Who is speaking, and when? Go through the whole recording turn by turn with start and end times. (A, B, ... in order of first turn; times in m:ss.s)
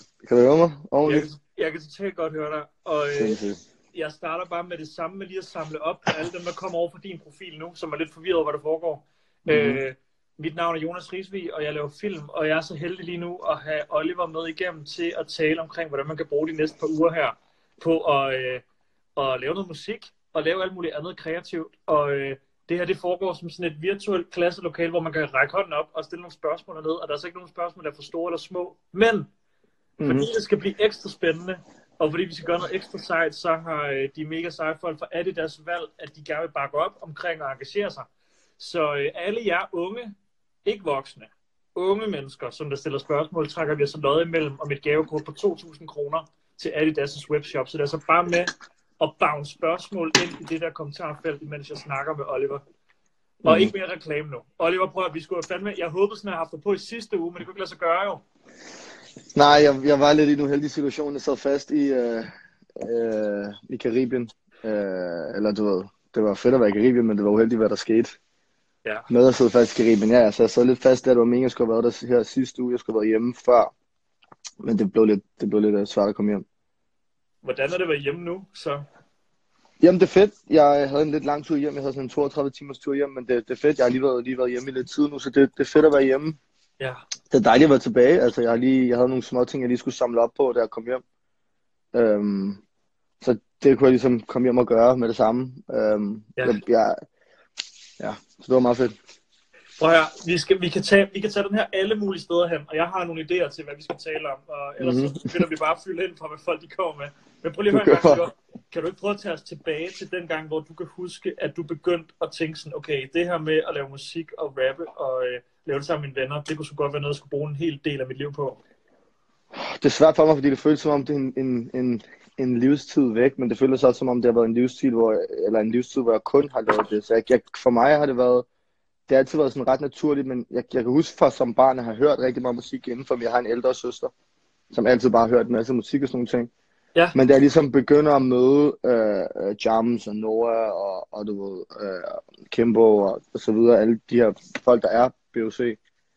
0:00.2-0:01.3 A
0:01.0-0:03.4 B
0:03.1-0:03.6 A
0:03.9-0:18.6 B
0:09.5-0:09.8 A
0:19.2-0:29.3 B
0:30.0-0:30.3 A
0:30.0-0:38.1 B
0:38.6-0:52.6 B
0:53.4-0:58.2 B
0:53.4-0:53.7 A
0:59.3-1:08.2 A
1:09.1-1:13.7 A
1:14.6-1:16.4 A
1:17.4-1:18.8 B
1:19.8-1:26.4 A
1:27.3-1:31.0 A
1:31.9-1:32.6 A
1:33.2-1:37.0 A
1:38.0-1:38.9 A
1:39.8-1:58.6 B
1:44.8-1:45.4 A
1:47.7-1:48.2 A
1:59.6-2:08.4 A
2:09.1-2:14.1 A
2:14.7-2:16.5 A
2:17.1-2:25.8 A